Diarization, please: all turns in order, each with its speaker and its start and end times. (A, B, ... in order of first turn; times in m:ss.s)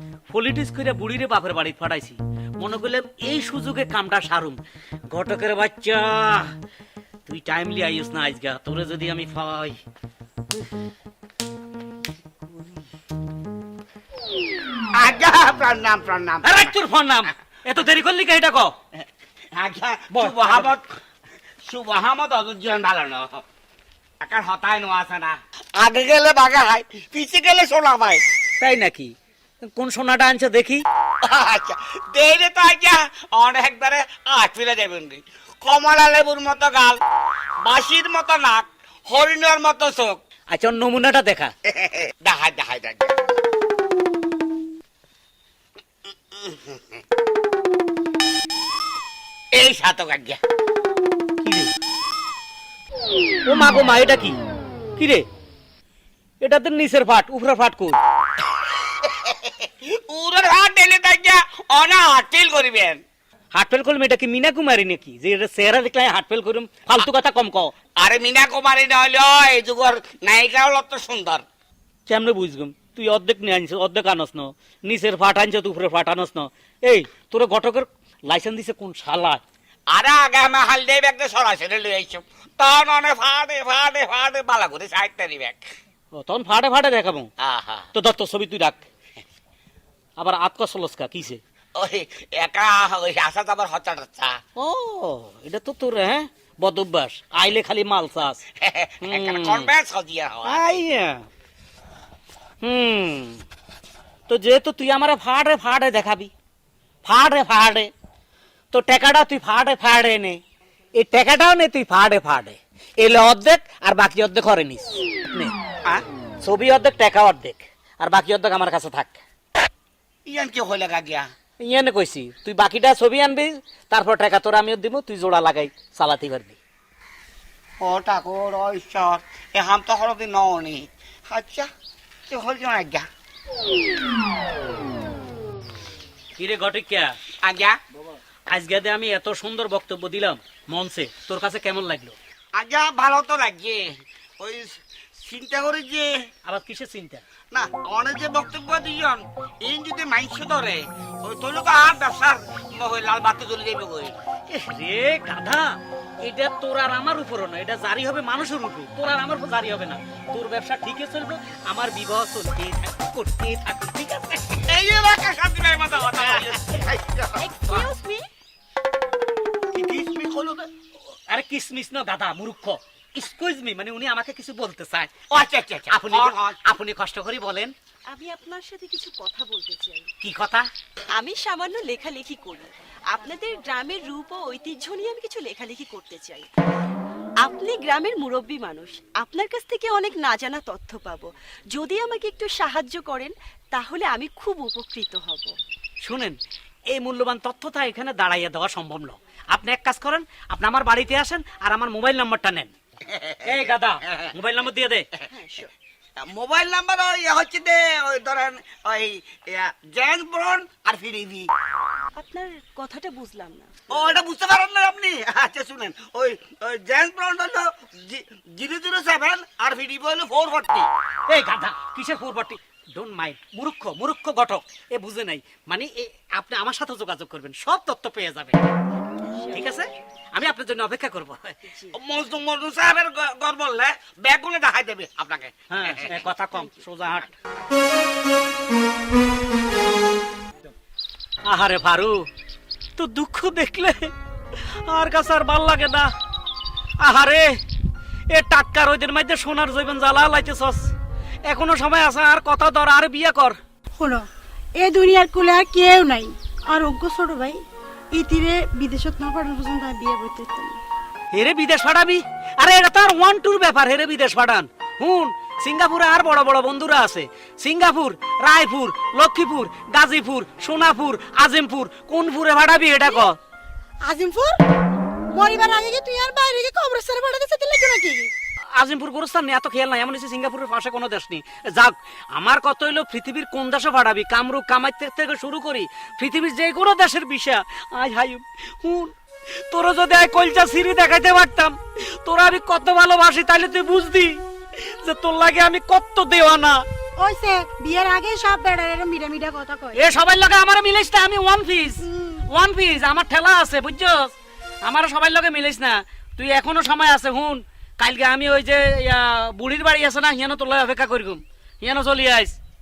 0:00.3-0:06.5 A
0:07.3-0:09.8 A
0:15.0-0:16.7 B
0:16.4-0:18.8 A
0:19.5-0:20.9 B
0:20.1-0:20.7 A
0:21.7-0:23.4 B
0:24.2-0:28.2 B
0:28.6-0:30.8 A
0:31.2-0:37.0 B
0:37.6-0:40.2 B
0:40.5-0:41.5 A
0:41.7-0:43.2 B
0:46.3-0:46.8 B
0:49.5-0:50.4 B
0:51.4-0:51.7 A
0:53.5-0:54.4 A
0:55.0-0:55.2 A
0:56.4-0:58.0 A
0:58.9-1:03.0 B
1:03.5-1:07.7 A
1:08.0-1:11.4 B
1:12.1-1:19.4 A
1:19.9-1:25.6 B
1:26.1-1:27.3 A
1:27.4-1:27.9 B
1:27.9-1:28.9 A
1:30.2-1:31.4 A
1:31.8-1:34.4 B
1:34.6-1:38.4 A
1:38.6-1:40.6 B
1:39.0-1:39.7 A
1:40.4-1:41.2 A
1:42.6-1:43.4 A
1:44.3-1:46.3 A
1:47.0-1:47.9 A
1:48.7-1:50.4 A
1:51.0-1:55.5 A
1:56.4-1:59.2 A
2:00.3-2:01.3 B
2:01.6-2:06.6 A
2:07.8-2:11.7 B
2:12.3-2:13.1 B
2:16.4-2:17.2 A
2:17.4-2:17.8 B
2:18.5-2:22.2 A
2:22.6-2:26.3 B
2:26.4-2:27.2 A
2:27.5-2:34.2 B
2:34.5-2:44.6 A
2:44.6-2:47.9 B
2:46.2-2:46.6 A
2:47.4-2:48.2 C
2:49.7-2:50.7 B
2:51.3-2:55.2 A
2:55.3-2:56.6 B
2:55.9-2:57.7 A
2:58.1-3:00.1 C
3:00.2-3:00.7 A
3:01.2-3:06.5 C
3:07.4-3:15.5 C
3:16.0-3:22.7 A
3:23.1-3:23.5 B
3:23.4-3:25.1 A
3:25.3-3:25.7 C
3:26.2-3:31.5 B
3:32.2-3:34.0 C
3:33.9-3:40.9 B
3:41.3-3:48.6 A
3:49.3-3:49.7 C
3:49.5-3:51.6 A
3:51.6-3:52.0 C
3:52.0-3:56.2 B
3:55.7-3:57.3 A
3:56.5-3:56.8 C
4:01.5-4:02.3 A
4:03.0-4:04.1 A
4:04.7-4:06.1 A
4:07.0-4:07.6 A
4:08.3-4:10.9 A
4:11.5-4:13.6 A
4:14.0-4:14.3 D
4:14.8-4:20.8 D
4:21.3-4:33.4 A
4:34.0-4:34.6 D
4:35.3-4:38.3 D
4:38.8-4:49.1 A
4:49.7-4:56.8 A
4:57.2-5:00.0 D
5:00.0-5:12.6 A
5:02.0-5:02.4 D